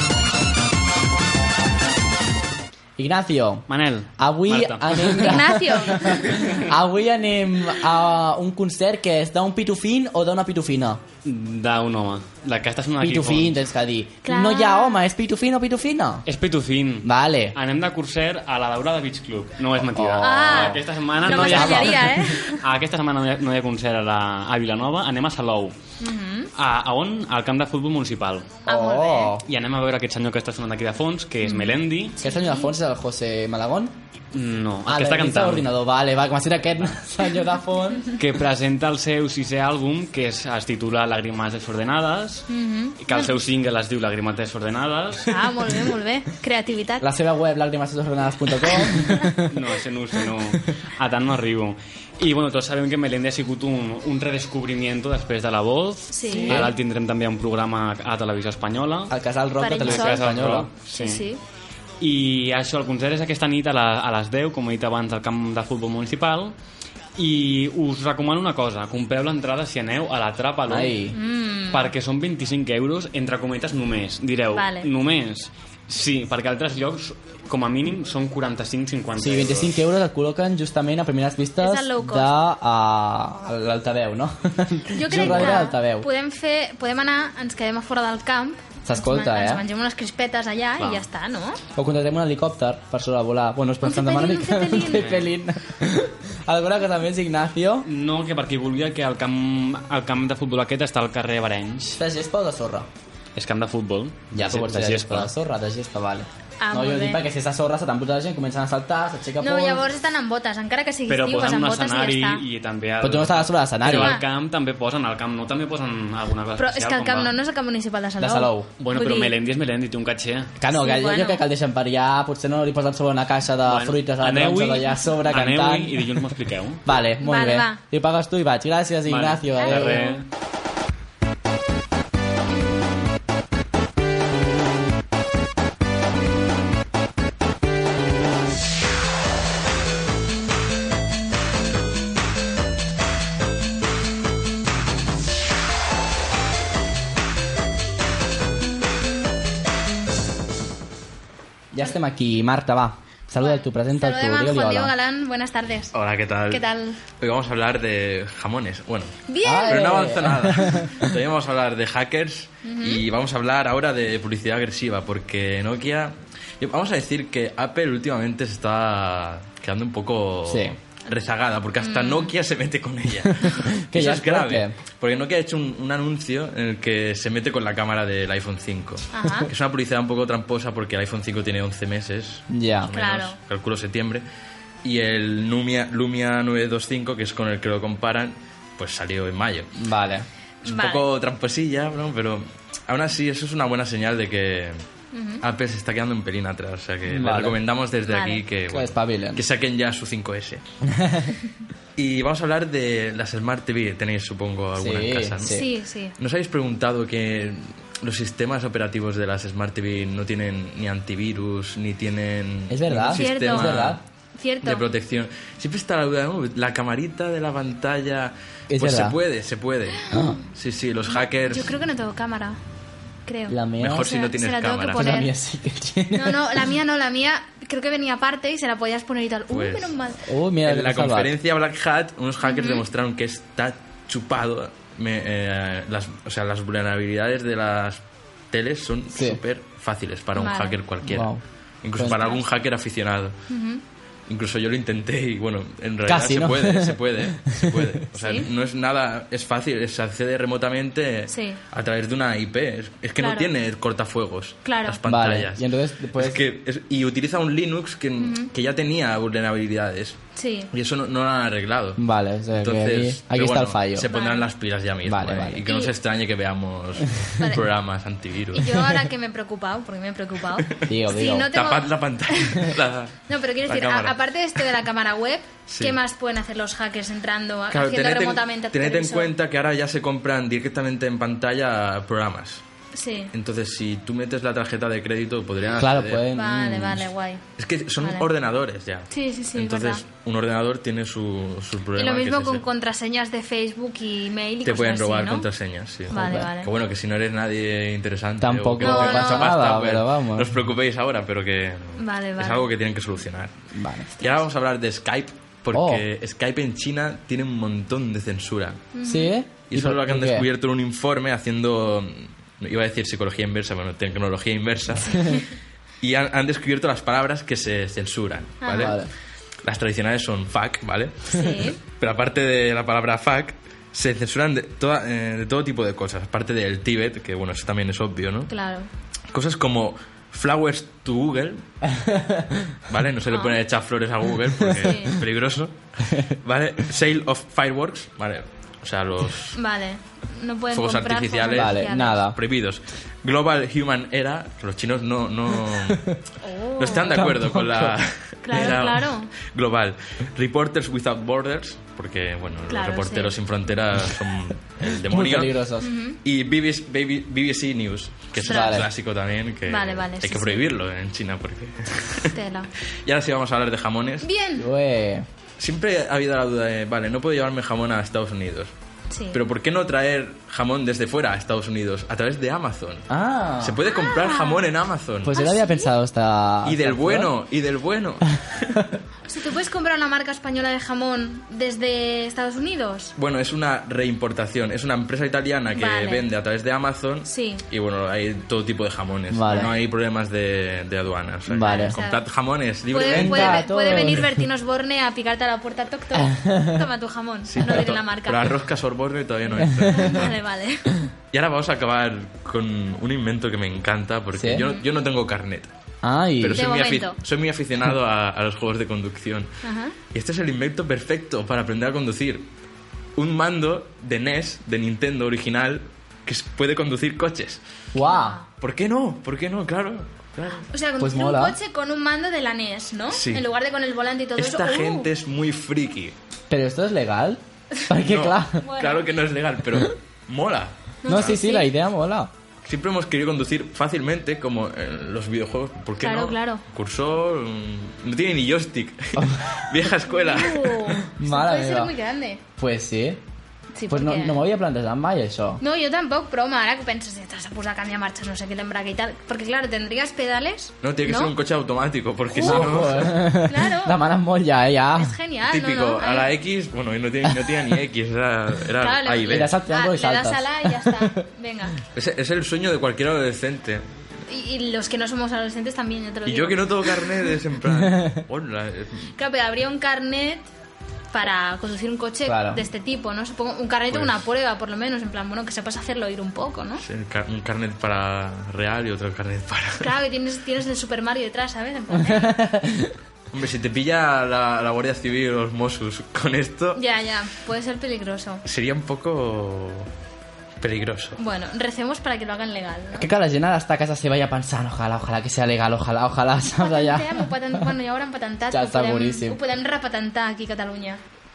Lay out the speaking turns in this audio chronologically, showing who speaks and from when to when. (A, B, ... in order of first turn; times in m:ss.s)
0:03.0-0:03.7 A
0:03.7-0:05.4 B
0:04.2-0:11.0 A
0:05.2-0:06.4 C
0:11.2-0:13.5 B
0:13.0-0:16.2 A
0:14.2-0:15.0 C
0:16.2-0:25.7 B
0:17.0-0:17.6 A
0:19.8-0:20.7 A
0:20.2-0:22.6 C
0:21.3-0:22.1 A
0:26.0-0:26.5 C
0:26.6-0:28.6 B
0:28.6-0:29.3 C
0:28.6-0:29.4 A
0:29.4-0:32.2 B
0:31.4-0:32.7 C
0:32.2-0:34.0 A
0:34.3-0:35.7 B
0:34.8-0:38.1 A
0:38.1-0:42.5 B
0:42.5-0:43.3 C
0:43.0-0:45.3 B
0:45.2-0:47.1 C
0:47.0-0:49.6 A
0:49.4-0:59.1 B
0:56.1-0:56.6 C
0:56.4-0:56.7 A
0:59.1-1:00.7 A
0:59.6-1:00.3 C
0:59.8-1:01.3 B
1:00.8-1:01.4 C
1:02.0-1:06.5 B
1:07.2-1:11.0 B
1:10.7-1:11.2 A
1:11.1-1:11.9 C
1:11.7-1:19.8 B
1:14.5-1:14.9 C
1:19.2-1:26.1 A
1:21.6-1:22.3 C
1:24.9-1:31.6 C
1:28.8-1:29.6 A
1:31.8-1:37.9 A
1:33.8-1:35.1 C
1:34.9-1:35.2 B
1:37.8-1:41.9 B
1:41.8-1:42.9 A
1:43.4-1:45.3 B
1:44.3-1:49.9 A
1:46.6-1:47.2 C
1:49.4-1:52.4 C
1:51.1-1:57.4 B
1:53.0-1:54.2 A
1:53.9-1:54.2 C
1:56.6-1:59.3 C
1:58.2-1:58.7 A
1:58.8-2:00.5 B
2:00.6-2:06.1 A
2:00.7-2:01.4 C
2:03.6-2:06.8 B
2:06.8-2:10.0 A
2:07.2-2:07.8 C
2:09.0-2:10.2 B
2:09.6-2:10.2 C
2:31.7-2:34.9 A
2:33.4-2:35.9 C
2:35.9-2:36.6 D
2:36.5-2:37.0 C
2:37.2-3:04.2 D
2:39.3-2:39.9 C
2:39.4-2:41.1 A
2:42.6-2:43.0 C
2:50.5-2:50.7 A
2:51.8-2:52.3 C
2:53.4-2:54.8 A
2:59.1-2:59.5 C
3:02.5-3:02.9 A
3:02.9-3:03.4 C
3:04.8-3:09.7 D
3:09.8-3:10.3 A
3:10.6-3:11.0 C
3:10.6-3:14.8 D
3:15.1-3:15.4 C
3:15.4-3:20.6 D
3:17.1-3:17.6 A
3:18.1-3:18.4 C
3:18.7-3:19.4 A
3:20.8-3:21.3 A
3:22.0-3:25.6 D
3:24.8-3:25.6 A
3:25.4-3:26.1 C
3:26.2-3:34.0 D
3:32.7-3:34.0 A
3:33.1-3:33.8 C
3:34.4-3:34.8 C
3:34.6-3:41.8 D
3:38.7-3:39.2 A
3:40.1-3:40.4 A
3:41.1-3:42.6 C
3:43.2-3:45.3 C
3:43.5-3:44.1 A
3:43.8-3:45.1 D
3:44.9-3:46.6 A
3:46.1-3:50.2 C
3:49.5-3:49.9 D
3:50.3-3:51.3 A
3:50.6-3:58.0 D
3:52.4-3:52.8 C
3:58.5-4:01.3 D
3:59.1-3:59.4 A
4:00.4-4:00.8 C
4:01.0-4:01.4 A
4:01.8-4:03.4 D
4:02.0-4:02.3 A
4:03.5-4:03.8 C
4:04.3-4:20.2 D
4:06.0-4:07.8 A
4:08.2-4:08.5 C
4:11.3-4:11.6 C
4:13.2-4:13.5 C
4:14.6-4:15.0 C
4:15.0-4:16.4 A
4:18.2-4:18.5 C
4:20.4-4:20.7 C
4:20.7-4:22.0 D
4:22.0-4:24.1 A
4:22.5-4:28.7 D
4:24.1-4:24.4 C
4:25.0-4:25.6 A
4:28.5-4:32.7 C
4:30.9-4:31.5 A
4:31.5-4:34.6 D
4:33.3-4:39.3 C
4:35.7-4:36.0 D
4:37.7-4:42.6 D
4:42.9-4:43.3 C
4:43.3-4:46.2 D
4:45.7-4:47.1 A
4:46.3-4:47.4 C
4:47.6-4:52.6 D
4:48.0-4:48.3 C
4:49.1-4:50.0 C
4:51.9-4:55.5 C
4:54.6-5:03.5 D
4:56.1-4:56.7 C
4:56.1-4:56.5 A
4:58.4-5:00.6 A
4:58.8-4:59.5 C
5:02.0-5:02.6 C
5:03.7-5:04.1 A
5:04.2-5:08.9 D
5:05.7-5:06.0 A
5:08.9-5:09.3 C
5:09.0-5:10.5 A
5:09.7-5:15.5 D
5:16.0-5:19.0 D
5:18.6-5:18.9 C
5:18.8-5:19.1 A
5:19.6-5:28.5 D
5:21.3-5:21.8 C
5:28.5-5:28.9 C
5:29.3-5:31.6 D
5:32.0-5:32.6 A
5:32.9-5:39.6 D
5:33.3-5:33.6 C
5:34.8-5:35.1 C
5:39.5-5:42.2 C
5:40.7-5:46.1 D
5:41.5-5:42.4 A
5:46.4-5:47.2 C
5:46.8-5:55.6 D
5:47.1-5:48.0 A
5:48.4-5:49.3 C
5:52.7-5:53.3 C
5:55.1-5:55.9 A
5:55.8-5:56.2 C
5:56.2-6:02.3 D
5:58.4-5:58.8 C
5:58.4-5:58.9 A
5:59.7-6:00.6 C
6:02.3-6:02.7 C
6:03.0-6:04.3 D
6:04.2-6:04.6 C
6:04.6-6:05.2 A
6:05.6-6:08.7 D
6:09.1-6:09.4 C
6:09.3-6:13.1 D
6:13.1-6:13.8 A
6:13.6-6:15.4 D
6:13.9-6:14.6 C
6:15.2-6:17.3 A
6:15.3-6:15.9 C
6:16.6-6:18.8 D
6:19.3-6:23.1 C
6:23.2-6:34.2 D
6:25.7-6:26.2 C
6:27.2-6:27.6 C
6:29.3-6:29.7 A
6:29.5-6:29.7 C
6:31.5-6:32.0 A
6:31.6-6:32.2 C
6:32.9-6:38.5 C
6:33.0-6:34.4 A
6:36.1-6:36.8 A
6:37.5-6:40.3 D
6:39.6-6:40.1 A
6:39.9-6:41.0 C
6:41.3-6:45.7 D
6:44.3-6:44.6 A
6:46.0-6:46.6 A
6:46.4-6:49.5 D
6:46.5-6:47.2 C
6:49.6-6:49.9 C
6:50.1-6:52.5 D
6:53.2-6:57.6 D
6:57.9-6:58.4 A
6:58.0-6:58.4 C
6:58.6-7:00.7 D
7:00.7-7:05.1 C
7:01.0-7:01.6 A
7:03.1-7:03.4 D
7:04.4-7:06.1 D
7:06.5-7:08.6 A
7:08.0-7:11.4 D
7:08.6-7:09.0 C
7:11.0-7:11.7 C
7:11.1-7:12.3 A
7:12.6-7:21.0 D
7:16.0-7:16.6 C
7:19.2-7:19.4 A
7:20.1-7:22.4 C
7:21.2-7:21.9 A
7:22.6-7:23.2 A
7:23.7-7:24.4 C
7:23.9-7:25.6 A
7:25.6-7:31.3 C
7:30.8-7:33.4 D
7:32.3-7:32.8 C
7:32.4-7:35.1 A
7:33.4-7:34.0 C
7:35.0-7:36.3 C
7:35.5-7:39.5 D
7:37.2-7:37.5 A
7:38.8-7:41.8 C
7:39.3-7:41.2 A
7:41.9-7:43.8 D
7:44.3-7:47.1 C
7:46.2-7:49.1 D
7:49.2-7:50.5 C
7:51.1-7:56.8 C
7:52.2-7:52.6 A
7:53.9-7:54.2 D
7:56.8-7:59.9 D
7:59.8-8:02.3 C
8:02.1-8:02.9 A
8:03.3-8:06.8 D
8:06.7-8:08.4 C
8:08.4-8:09.9 D
8:10.6-8:11.2 D
8:11.2-8:13.1 C
8:13.0-8:17.7 A
8:16.6-8:21.0 C
8:18.5-8:19.4 A